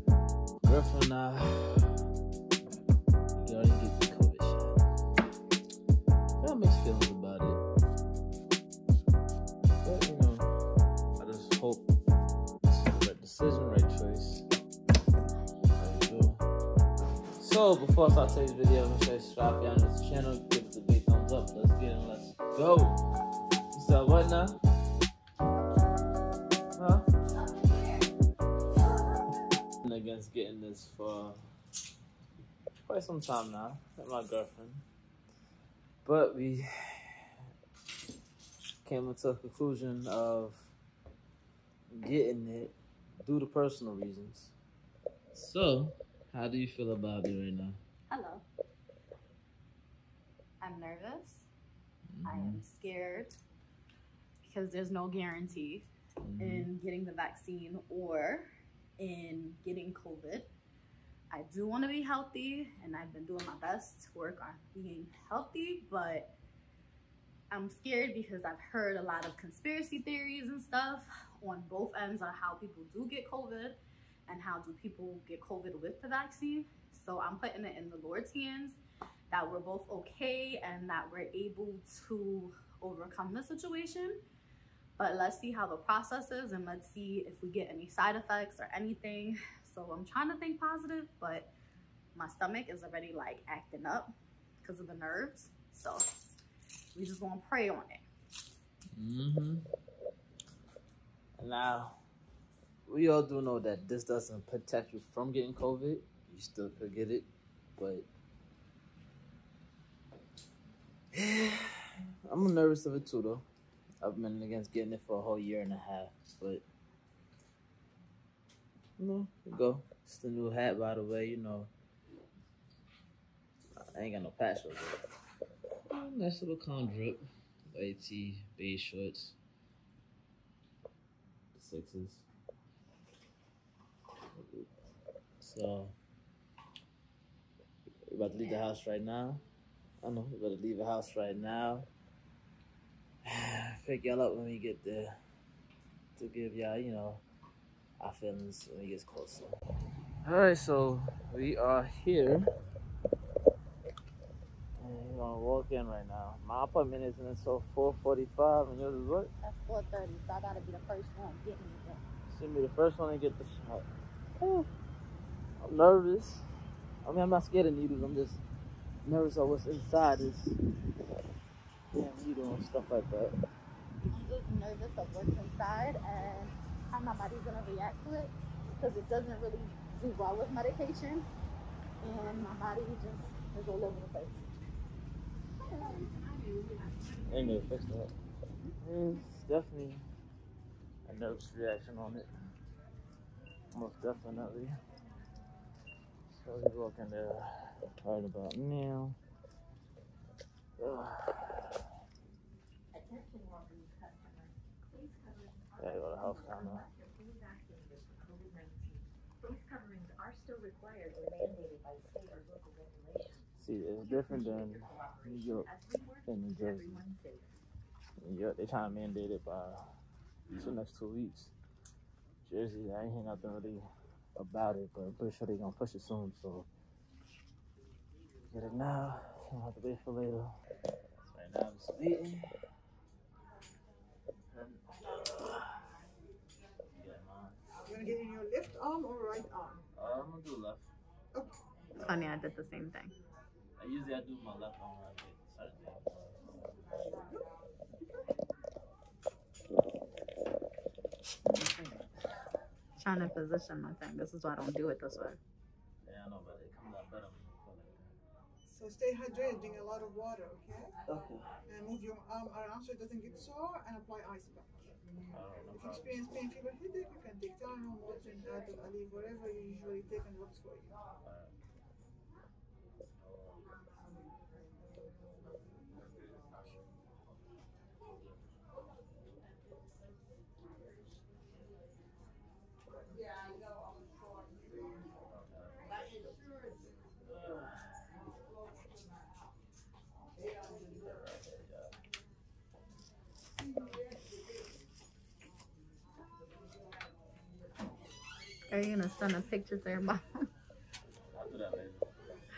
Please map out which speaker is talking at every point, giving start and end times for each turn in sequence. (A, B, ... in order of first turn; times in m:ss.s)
0:00.6-0:01.9 A
0:03.4-0:04.8 A
0:06.4-0:07.6 A
0:09.8-0:10.5 A
0:11.2-0:11.9 A
0:12.6-0:14.4 A
0:15.8-0:16.4 A
0:17.4-0:23.0 A
0:23.7-0:24.6 A
0:26.8-0:27.0 A
0:29.8-0:31.4 A
0:32.8-0:34.8 A
0:36.0-0:37.3 A
0:38.8-0:40.7 A
0:41.9-0:44.5 A
0:45.3-0:47.8 A
0:48.1-0:48.4 B
0:50.6-0:51.5 B
0:52.2-0:52.6 A
0:52.2-0:53.4 B
0:54.4-1:00.5 B
0:56.2-0:56.7 A
1:01.3-1:06.3 B
1:07.5-1:18.8 B
1:19.3-1:24.2 B
1:25.0-1:31.5 B
1:32.2-1:34.1 B
1:34.6-1:36.1 B
1:37.0-1:38.0 B
1:39.0-1:39.6 A
1:41.4-1:42.0 A
1:42.9-1:48.1 A
1:51.1-1:53.4 A
1:54.0-1:56.6 A
1:59.0-2:01.7 A
2:03.8-2:05.0 A
2:05.9-2:09.4 A
2:11.6-2:12.2 A
2:14.4-2:14.7 A
2:15.4-2:16.0 A
2:18.1-2:19.4 A
2:20.0-2:21.9 A
2:23.2-2:25.2 A
2:26.2-2:27.2 A
2:28.0-2:29.5 A
2:30.2-2:32.5 A
2:34.8-2:39.3 A
2:39.4-2:42.0 B
2:42.3-2:43.9 A
2:44.4-2:44.7 A
2:45.6-2:46.4 A
2:47.0-2:48.4 A
2:49.0-2:50.6 A
2:51.9-2:53.3 A
2:54.0-3:01.3 B
3:02.0-3:04.5 B
3:05.9-3:06.9 C
3:07.3-3:08.1 A
3:08.8-3:10.0 A
3:11.1-3:12.3 A
3:13.7-3:14.8 A
3:16.3-3:19.2 A
3:20.8-3:21.8 A
3:23.0-3:33.4 C
3:25.8-3:26.8 A
3:33.6-3:35.7 A
3:34.9-3:36.0 C
3:36.3-3:37.0 A
3:36.6-3:37.4 C
3:38.2-3:39.8 A
3:40.5-3:41.5 A
3:42.4-3:43.8 A
3:44.4-3:46.7 A
3:48.5-3:50.5 A
3:51.2-3:52.5 A
3:54.5-3:55.9 A
3:56.9-3:57.6 A
3:57.9-3:59.8 C
4:00.0-4:00.9 A
4:01.3-4:01.6 C
4:02.0-4:03.1 B
4:03.8-4:06.8 A
4:11.5-4:11.9 A
4:13.0-4:15.4 B
4:16.0-4:18.1 A
4:18.7-4:21.0 C
4:21.1-4:21.5 A
4:21.7-4:24.9 C
4:25.3-4:26.1 A
4:25.7-4:31.0 C
4:31.2-4:31.5 A
4:45.3-4:45.7 A
4:47.2-4:48.2 A
4:50.9-4:52.0 A
4:58.7-5:00.5 B
5:01.3-5:02.2 A